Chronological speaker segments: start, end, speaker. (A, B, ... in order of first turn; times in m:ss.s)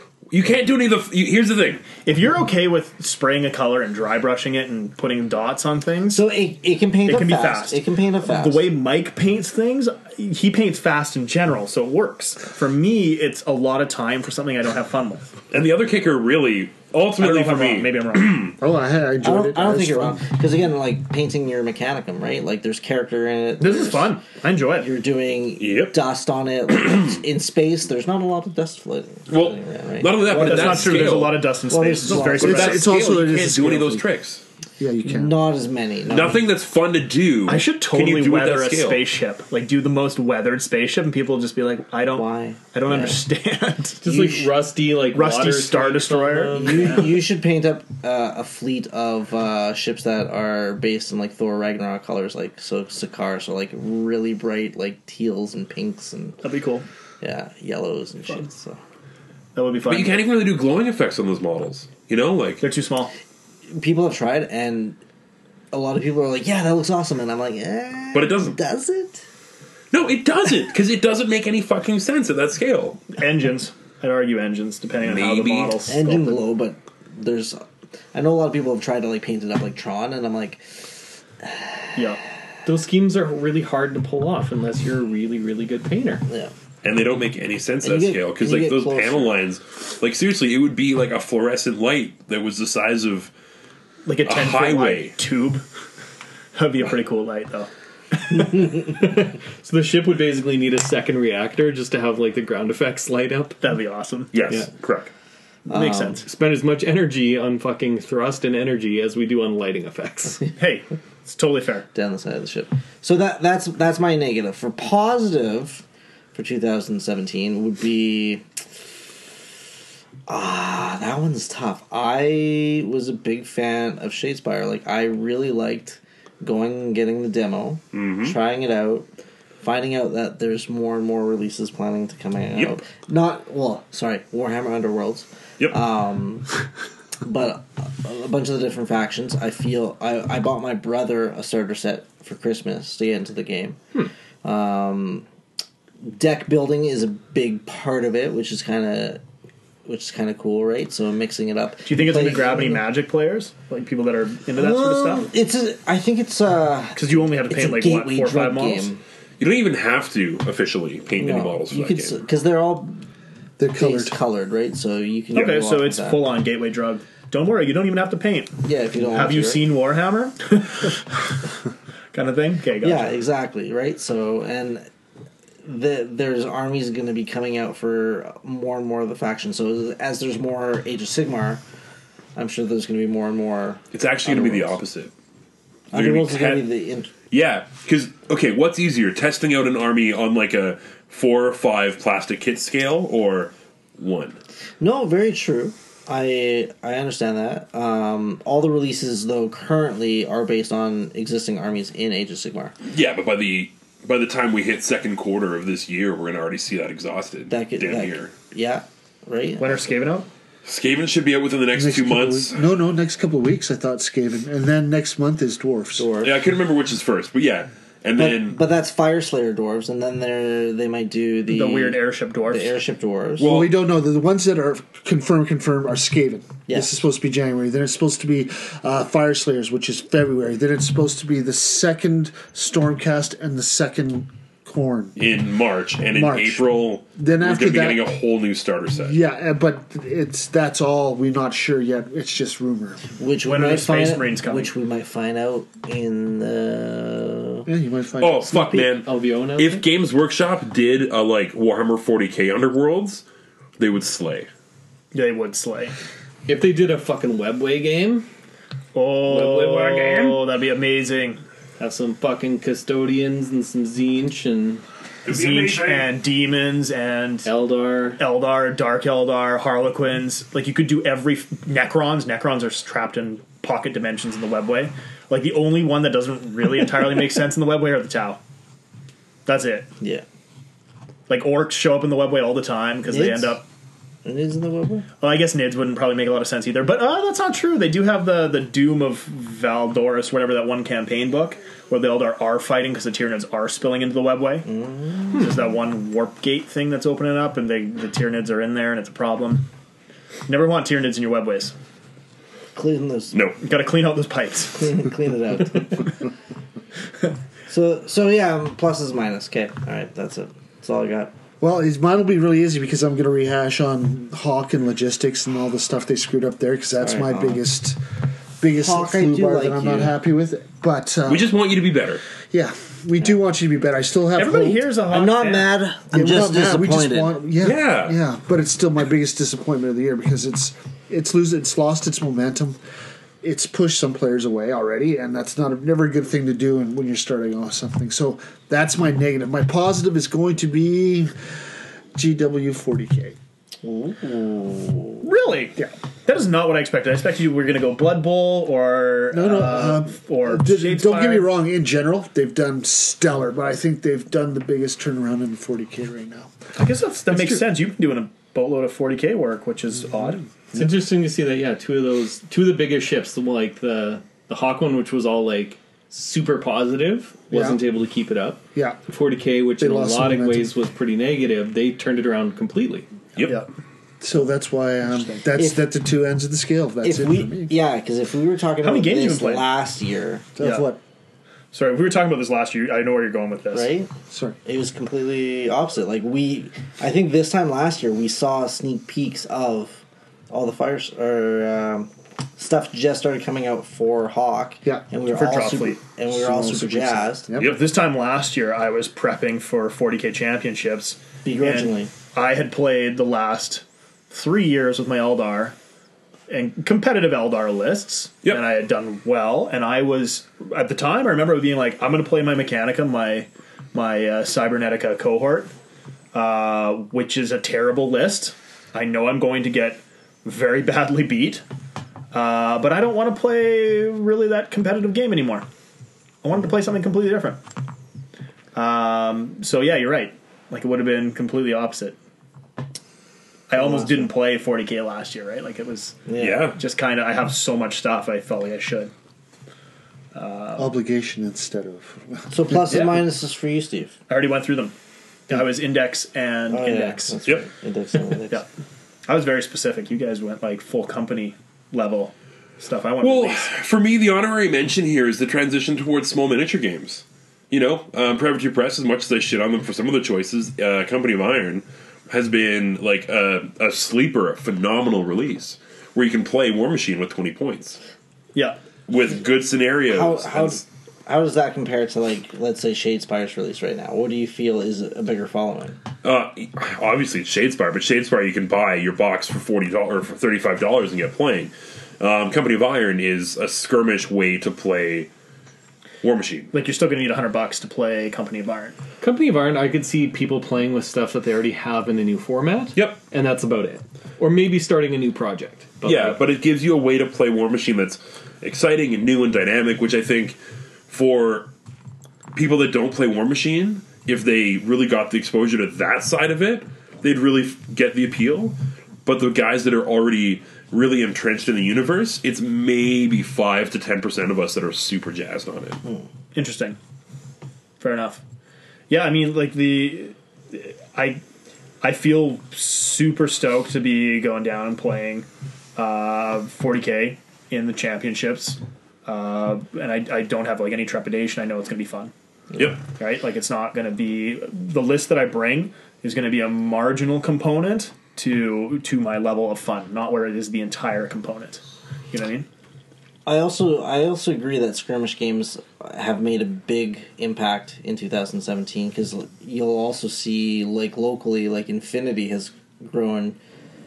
0:00.3-0:01.9 A
0:02.0-0:06.2 B
0:06.1-0:08.7 C
0:07.0-0:15.3 B
0:15.5-0:18.6 A
0:17.2-0:18.5 B
0:18.6-0:20.2 D
0:19.2-0:24.2 C
0:23.6-0:24.9 B
0:24.8-0:32.8 C
0:25.6-0:26.0 A
0:29.3-0:31.5 A
0:30.4-0:33.0 B
0:32.4-0:34.4 A
0:32.4-0:34.1 D
0:34.8-0:35.4 D
0:35.0-0:36.4 C
0:36.1-0:39.0 A
0:37.5-0:44.3 B
0:42.1-0:43.2 C
0:44.0-0:47.2 E
0:45.1-0:47.0 B
0:46.6-0:56.4 C
0:56.4-0:56.9 B
0:57.2-0:58.8 C
0:59.6-1:00.2 B
0:59.9-1:02.6 A
1:02.6-1:03.1 B
1:03.7-1:05.0 C
1:05.7-1:09.2 C
1:08.1-1:08.6 A
1:09.9-1:13.0 A
1:13.1-1:16.4 B
1:15.0-1:15.8 A
1:15.9-1:20.6 C
1:21.4-1:21.8 C
1:22.6-1:26.2 E
1:26.3-1:26.5 C
1:26.8-1:33.3 A
1:27.8-1:29.4 C
1:34.0-1:35.6 B
1:34.2-1:35.2 A
1:36.5-1:38.7 B
1:38.3-1:43.6 E
1:43.6-1:44.3 B
1:44.3-1:45.1 A
1:45.7-1:46.2 C
1:45.7-1:46.3 B
1:46.3-1:50.4 E
1:50.6-1:51.9 B
1:51.9-1:58.4 C
2:00.3-2:09.1 C
2:07.9-2:08.4 A
2:09.6-2:16.6 C
2:17.2-2:23.8 C
2:24.4-2:25.3 C
2:26.0-2:29.2 C
2:29.8-2:32.8 C
2:31.8-2:35.3 B
2:34.6-2:39.0 C
2:37.0-2:38.9 B
2:39.4-2:42.2 A
2:41.2-2:43.0 C
2:43.6-2:44.2 D
2:43.8-2:46.3 C
2:45.3-2:51.0 B
2:48.6-2:49.7 C
2:52.1-2:53.2 B
2:52.8-2:54.9 C
2:55.6-3:01.6 C
3:02.4-3:04.8 C
3:03.9-3:05.1 A
3:05.9-3:06.7 A
3:05.9-3:07.1 C
3:07.3-3:14.4 A
3:14.8-3:22.8 C
3:22.9-3:28.3 A
3:27.5-3:29.8 C
3:29.6-3:30.3 B
3:30.7-3:32.6 A
3:31.8-3:36.1 D
3:36.0-3:36.4 C
3:36.2-3:38.6 A
3:38.2-3:43.5 C
3:41.5-3:42.8 B
3:43.4-3:55.2 D
3:43.4-3:43.7 A
3:55.2-3:59.2 A
3:56.1-3:58.0 D
3:59.0-4:03.1 D
4:03.2-4:07.7 C
4:03.4-4:04.7 B
4:07.7-4:08.9 D
4:08.2-4:13.2 A
4:09.0-4:09.8 E
4:13.8-4:14.5 A
4:15.1-4:16.0 B
4:16.5-4:18.3 E
4:18.9-4:21.4 B
4:19.3-4:20.3 A
4:19.3-4:20.3 E
4:21.8-4:24.8 E
4:25.3-4:26.1 A
4:25.3-4:27.5 B
4:27.4-4:28.2 E
4:28.2-4:38.4 B
4:39.5-4:39.9 B
4:40.0-4:40.2 C
4:41.3-4:43.6 B
4:43.1-4:43.6 C
4:44.2-4:45.1 C
4:45.2-4:54.7 B
4:54.7-4:55.4 C
4:55.3-4:59.7 B
5:00.5-5:01.7 B
5:02.8-5:03.4 C
5:03.3-5:03.6 A
5:03.6-5:05.0 B
5:04.8-5:06.1 C
5:07.7-5:11.3 C
5:11.6-5:18.0 D
5:17.0-5:17.6 C
5:18.6-5:21.5 D
5:18.8-5:20.2 C
5:21.3-5:22.2 A
5:22.5-5:24.9 D
5:24.4-5:25.7 B
5:25.1-5:27.4 C
5:26.1-5:32.8 D
5:27.6-5:28.2 A
5:33.4-5:41.3 D
5:42.2-5:43.4 D
5:43.8-5:45.2 C
5:45.2-5:51.5 B
5:49.3-5:56.6 D
5:56.8-6:00.5 B
5:57.3-5:57.6 E
6:00.7-6:13.1 E
6:07.5-6:07.8 D
6:09.8-6:10.7 D
6:13.4-6:13.7 B
6:14.2-6:17.7 D
6:15.6-6:15.8 C
6:17.0-6:20.5 C
6:18.8-6:19.7 B
6:20.6-6:21.0 D
6:20.6-6:20.9 B
6:21.7-6:23.9 B
6:23.7-6:24.1 C
6:24.3-6:24.6 D
6:24.6-6:37.5 C
6:34.8-6:35.7 D
6:35.3-6:36.0 B
6:36.3-6:37.8 D
6:37.6-6:37.8 A
6:37.6-6:45.8 B
6:41.4-6:42.1 C
6:46.5-6:55.7 B
6:56.3-7:01.6 B
7:02.3-7:05.7 B
7:06.4-7:07.6 B
7:08.8-7:12.2 B
7:13.7-7:16.2 B
7:13.8-7:14.3 C
7:16.3-7:16.6 C
7:16.4-7:16.8 A
7:16.8-7:19.1 B
7:20.3-7:20.9 B
7:20.8-7:23.2 D
7:22.5-7:24.2 C
7:24.3-7:24.9 B
7:25.5-7:27.4 B
7:26.7-7:28.6 C
7:29.3-7:33.7 B
7:33.2-7:48.0 A
7:49.1-7:50.8 A
7:50.1-7:56.0 C
7:56.2-8:05.3 A
8:06.2-8:06.7 A
8:06.7-8:09.0 B
8:09.2-8:16.4 E
8:13.0-8:13.2 A
8:16.0-8:20.6 A
8:21.1-8:21.7 A
8:22.6-8:36.0 A
8:36.5-8:37.0 B
8:38.0-8:38.4 B
8:39.1-8:41.4 B
8:42.0-8:52.3 B
8:52.8-8:53.0 A
8:53.2-9:02.7 B
9:03.5-9:13.6 C